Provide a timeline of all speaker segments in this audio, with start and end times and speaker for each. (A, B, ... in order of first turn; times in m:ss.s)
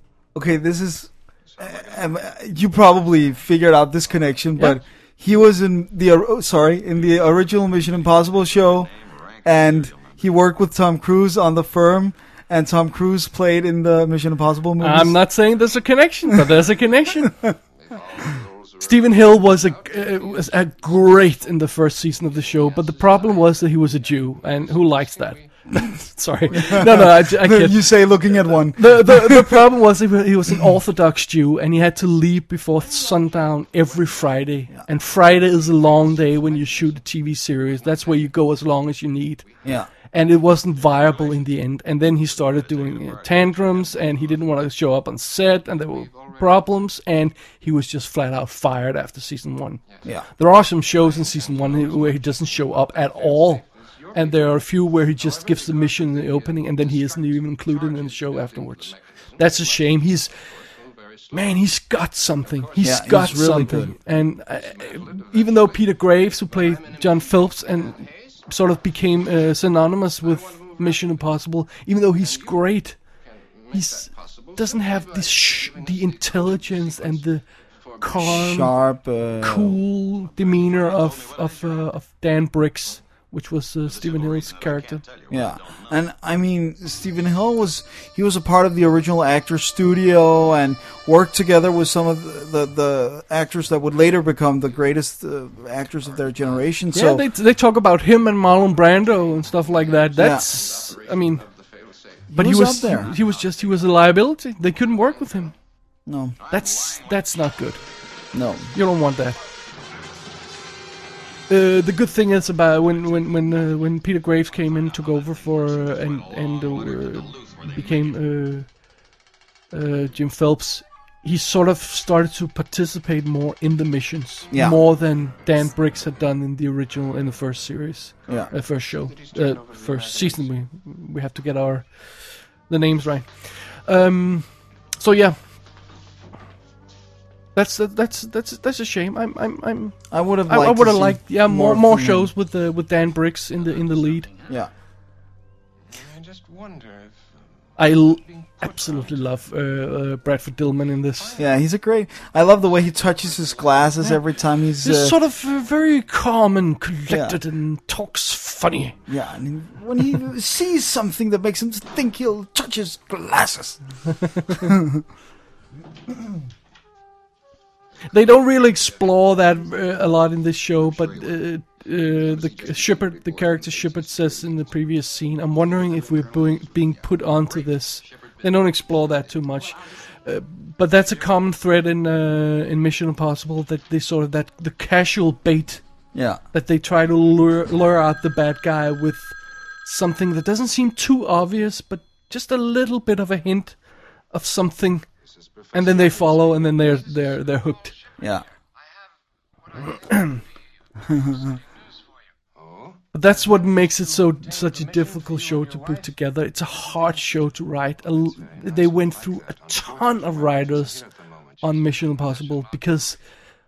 0:00.4-0:08.9 A
0:01.5-0:02.3 B
0:08.9-0:10.2 B
0:09.4-0:15.2 A
0:14.8-0:17.4 C
0:17.2-0:17.5 A
0:17.8-0:21.4 B
0:18.8-0:27.9 C
0:22.3-0:25.4 B
0:26.5-0:29.6 A
0:28.8-0:39.4 C
0:33.7-0:34.2 B
0:35.4-0:37.0 B
0:37.6-0:38.3 B
0:39.5-0:39.8 B
0:40.1-0:49.8 C
0:40.7-0:41.4 B
0:42.2-0:44.3 B
0:50.4-1:00.4 C
0:50.9-0:52.3 B
0:53.1-1:01.4 B
1:01.3-1:13.0 C
1:02.6-1:02.9 B
1:02.8-1:04.0 A
1:04.6-1:05.8 B
1:06.4-1:08.4 B
1:10.4-1:10.8 B
1:13.4-1:17.2 B
1:13.7-1:17.4 C
1:18.0-1:18.8 C
1:18.2-1:19.8 A
1:19.4-1:25.0 C
1:20.4-1:21.8 B
1:23.9-1:25.9 B
1:25.3-1:37.2 A
1:36.9-1:41.4 C
1:38.9-1:44.0 B
1:40.2-1:40.5 A
1:42.3-1:43.1 A
1:42.3-1:45.5 C
1:46.1-1:46.4 A
1:46.4-1:47.3 B
1:46.5-1:47.8 C
1:48.3-1:48.7 A
1:48.7-1:49.4 C
1:51.5-1:58.7 C
1:52.9-1:53.4 B
1:54.5-1:58.2 B
1:59.7-2:14.5 C
2:04.5-2:04.8 A
2:09.1-2:10.5 B
2:15.0-2:15.4 C
2:17.6-2:24.3 C
2:20.1-2:22.3 A
2:26.0-2:27.2 B
2:27.8-2:31.4 C
2:28.4-2:29.2 B
2:31.4-2:35.2 A
2:33.0-2:34.0 B
2:34.8-2:39.0 C
2:37.1-2:37.4 A
2:39.1-2:43.8 A
2:44.5-2:45.0 A
2:48.1-3:05.8 C
2:49.4-2:50.0 B
2:50.8-2:51.4 B
2:52.2-2:54.7 B
2:55.6-2:59.7 B
3:06.1-3:06.4 A
3:06.5-3:13.8 C
3:14.3-3:15.1 C
3:15.4-3:17.5 B
3:15.7-3:18.0 C
3:18.2-3:18.4 A
3:19.9-3:20.4 C
3:21.0-3:21.6 A
3:22.6-3:23.0 B
3:23.1-3:31.1 C
3:24.4-3:26.0 B
3:28.4-3:32.8 B
3:31.6-3:33.2 C